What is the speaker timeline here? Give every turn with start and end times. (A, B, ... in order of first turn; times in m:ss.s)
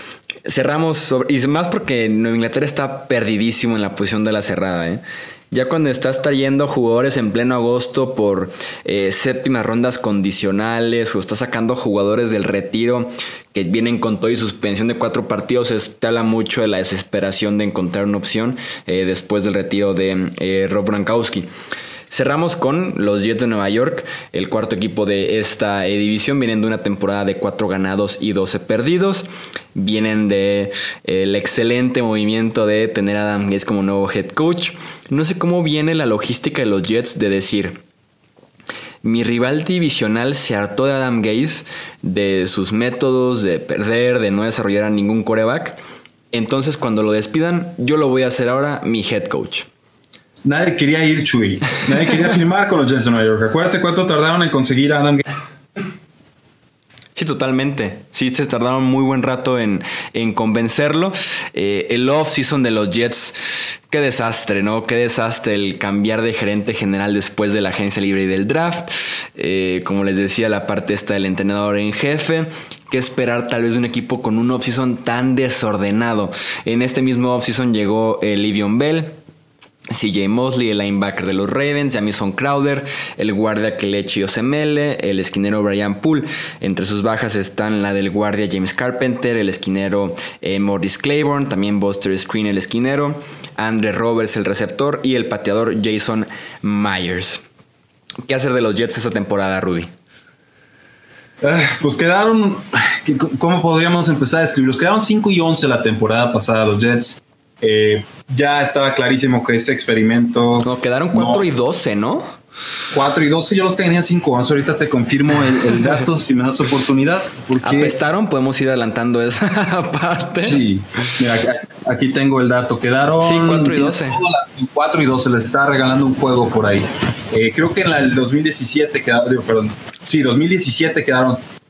0:00.5-0:21.5 A
0:22.1-0:37.8 A
0:39.0-0:45.8 A
0:46.3-0:49.7 A
0:50.4-0:55.2 B
0:57.2-1:03.4 A
1:03.9-1:19.2 A
1:19.9-1:37.4 A
1:38.3-1:39.9 A
1:41.4-1:51.5 B
1:50.6-1:52.3 A
1:52.9-1:58.0 B
1:57.6-2:01.2 A
2:00.4-2:11.5 B
2:03.2-2:04.2 A